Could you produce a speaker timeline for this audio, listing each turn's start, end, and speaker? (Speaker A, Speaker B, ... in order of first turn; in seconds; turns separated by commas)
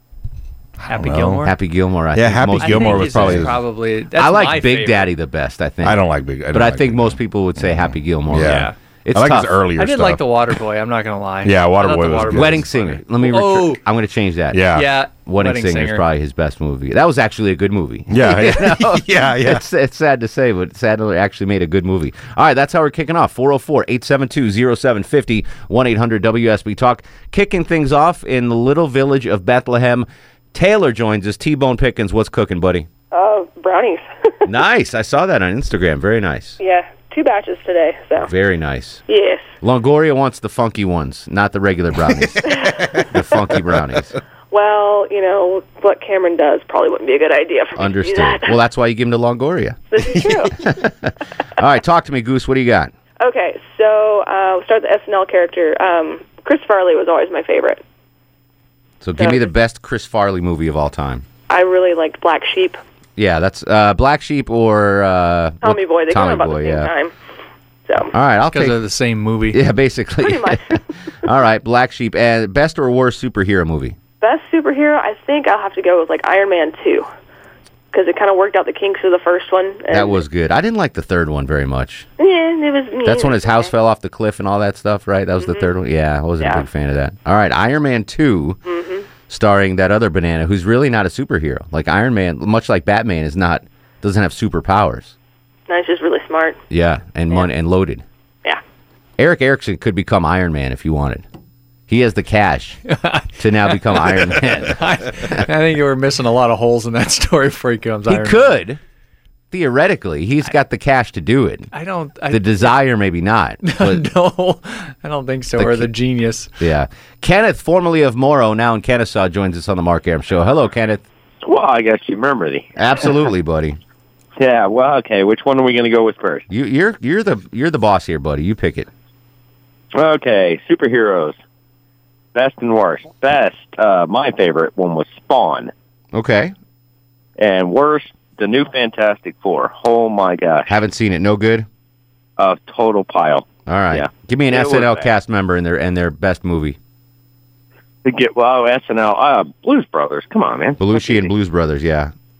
Speaker A: 0.8-1.4, Speaker B: 0.8-1.5, Speaker C: 1.4-3.5, Speaker A: 2.1-3.6, Speaker B: 2.5-5.1, Speaker C: 4.1-9.6, Speaker A: 5.8-10.3, Speaker B: 8.4-8.7, Speaker B: 9.8-13.8, Speaker A: 11.4-12.7, Speaker C: 12.3-14.7, Speaker A: 14.5-14.9, Speaker B: 14.7-16.0, Speaker C: 15.2-32.9, Speaker A: 18.1-19.6, Speaker D: 33.1-34.3, Speaker C: 34.5-36.6, Speaker D: 36.6-38.3, Speaker C: 38.2-39.0, Speaker D: 39.1-39.5, Speaker C: 39.6-42.5, Speaker A: 42.1-43.0, Speaker D: 42.5-42.8, Speaker C: 43.1-44.1, Speaker D: 44.5-48.5, Speaker C: 47.8-50.0, Speaker D: 49.9-50.5, Speaker A: 50.1-50.5, Speaker C: 50.6-52.9, Speaker D: 53.2-57.8, Speaker C: 59.0-61.2, Speaker D: 59.2-59.5, Speaker D: 61.5-62.8, Speaker C: 63.2-66.9, Speaker D: 65.6-67.1, Speaker C: 68.1-68.8, Speaker B: 68.5-69.6, Speaker C: 69.5-74.0, Speaker D: 70.2-70.8, Speaker D: 74.2-77.1, Speaker D: 77.9-80.2, Speaker C: 79.9-82.1, Speaker D: 82.2-83.7, Speaker C: 83.0-88.6, Speaker D: 85.4-85.7, Speaker D: 86.4-86.6, Speaker D: 88.7-89.0, Speaker C: 89.3-95.1, Speaker D: 95.7-96.6, Speaker C: 96.7-98.0, Speaker C: 99.2-101.2, Speaker C: 101.9-102.8, Speaker B: 102.9-108.5, Speaker C: 103.4-105.2, Speaker C: 108.1-108.8, Speaker C: 109.5-111.7, Speaker B: 111.7-112.7, Speaker C: 112.3-114.0, Speaker B: 113.6-116.5, Speaker C: 115.6-115.9, Speaker C: 116.6-121.0, Speaker E: 121.4-122.7, Speaker C: 122.8-123.8, Speaker E: 124.4-126.4, Speaker C: 126.5-128.9, Speaker E: 129.9-131.4, Speaker E: 132.3-135.7, Speaker C: 136.1-136.5, Speaker E: 137.4-140.8, Speaker C: 140.7-141.7, Speaker E: 142.4-145.1, Speaker C: 143.7-146.8, Speaker E: 148.0-151.3, Speaker C: 150.8-152.1